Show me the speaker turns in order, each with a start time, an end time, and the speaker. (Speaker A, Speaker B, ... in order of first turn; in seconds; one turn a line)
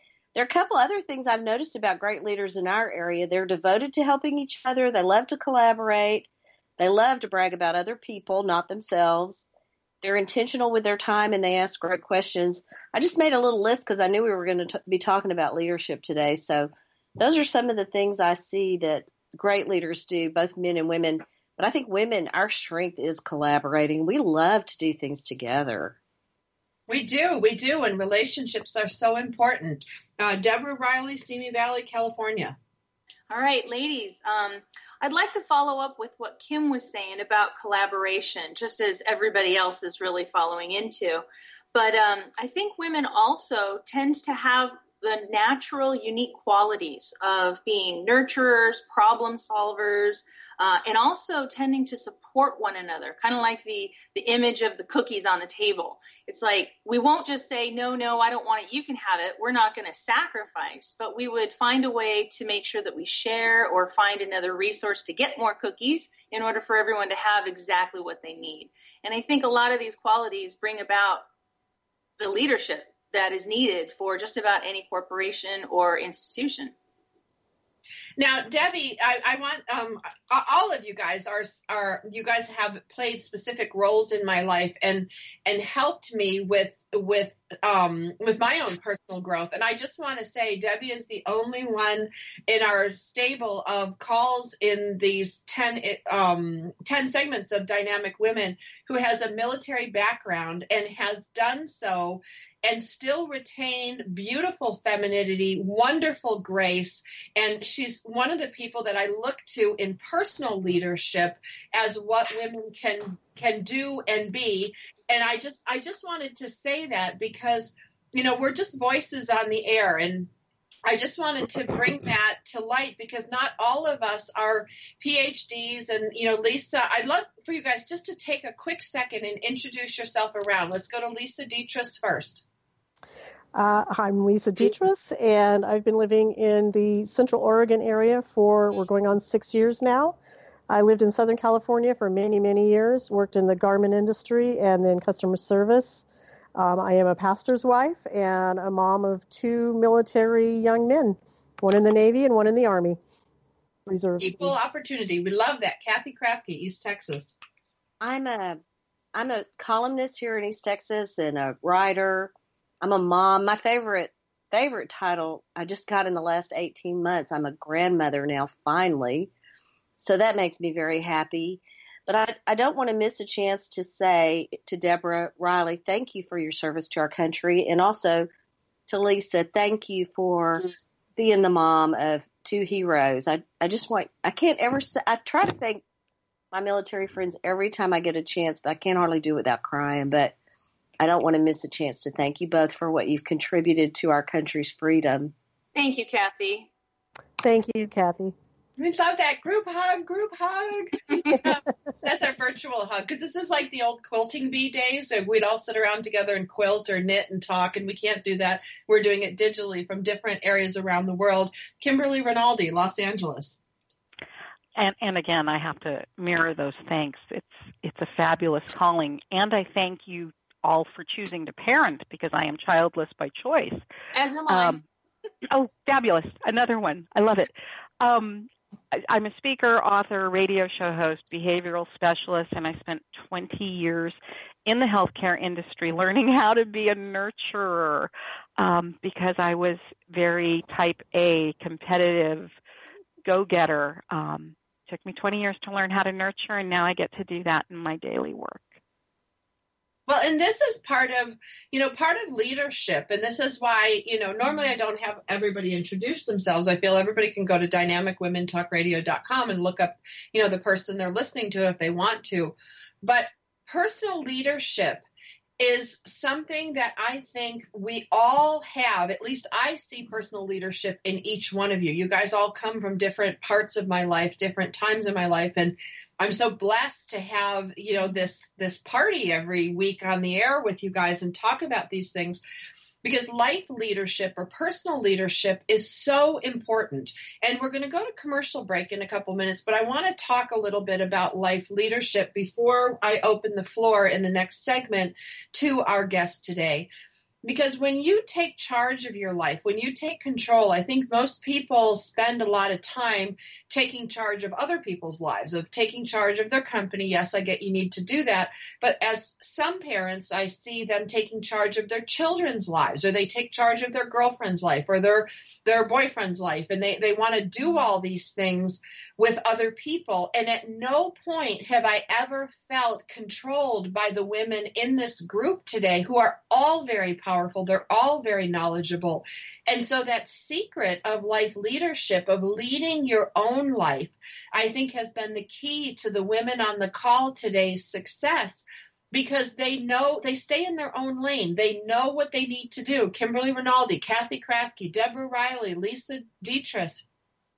Speaker A: 0.3-9.4
Speaker A: 10.0-26.0
Speaker B: 26.9-32.6
Speaker C: 33.3-71.2
Speaker C: 72.2-76.7
Speaker B: 78.2-120.3
Speaker B: 120.9-132.4
Speaker D: 133.6-140.2
Speaker D: 140.7-146.1
Speaker D: 146.6-153.0
Speaker D: 153.9-154.5
Speaker B: 154.2-157.3
Speaker A: 158.0-158.6
Speaker A: 159.2-169.3
Speaker A: 170.0-178.3
Speaker A: 178.9-185.8
Speaker A: 186.5-190.3
Speaker A: 191.0-195.3
Speaker C: 195.8-196.7
Speaker D: 197.4-198.3
Speaker B: 198.8-213.6
Speaker E: 214.8-223.8
Speaker C: 224.2-224.8
Speaker E: 224.5-224.8
Speaker E: 225.5-242.6
Speaker E: 243.2-248.8
Speaker B: 250.1-265.0
Speaker B: 265.6-282.4
Speaker B: 283.0-296.9
Speaker B: 297.4-347.1